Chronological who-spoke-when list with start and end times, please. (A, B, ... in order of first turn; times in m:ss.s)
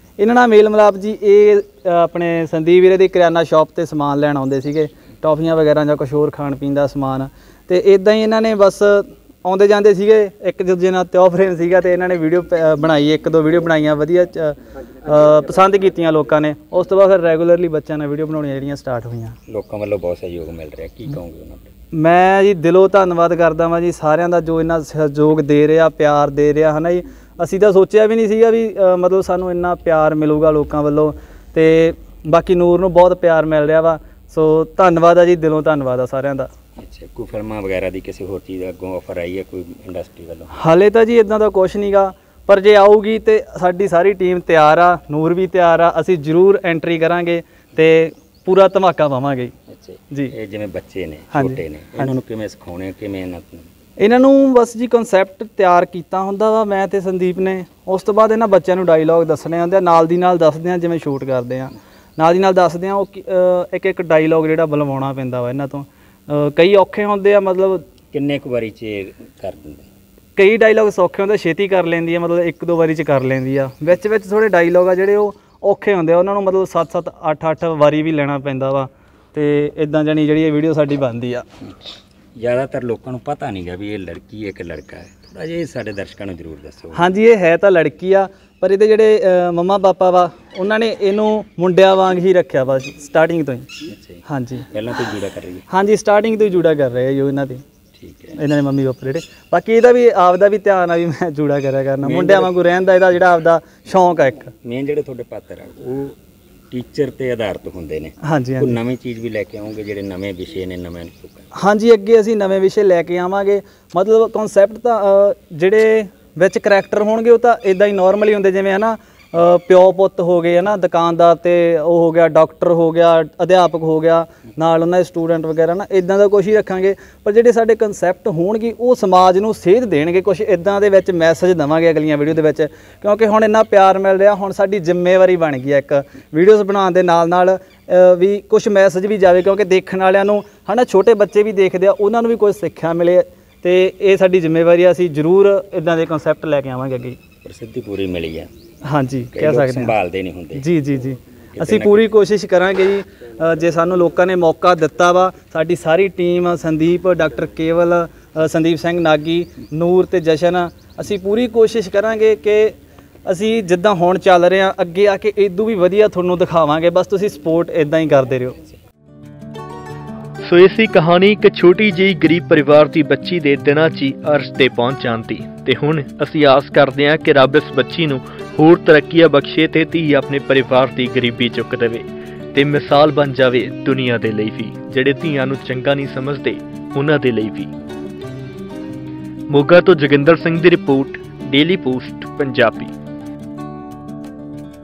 0:00.2-0:19.4 A
0:19.5-0:21.7 B
0:21.9-0:36.5 A
0:36.8-0:40.5 B
0:40.5-0:49.5 A
0:49.7-0:53.7 B
0:51.3-0:52.1 A
0:54.0-1:07.8 A
1:08.1-1:09.8 B
1:10.4-1:21.4 A
1:22.4-1:27.0 B
1:26.9-1:33.6 A
1:33.9-1:35.6 B
1:34.2-1:34.6 A
1:35.7-1:37.6 A
1:38.0-1:38.4 B
1:38.4-1:44.5 A
1:42.0-1:42.5 B
1:44.6-1:46.2 B
1:46.7-1:51.4 B
1:48.2-1:48.7 A
1:51.5-2:27.2 A
2:27.4-2:28.5 B
2:28.8-2:29.9 A
2:29.3-2:30.6 B
2:30.5-2:42.7 A
2:31.6-2:32.1 B
2:43.2-2:48.6 A
2:50.4-3:07.7 C
3:09.5-3:12.9 C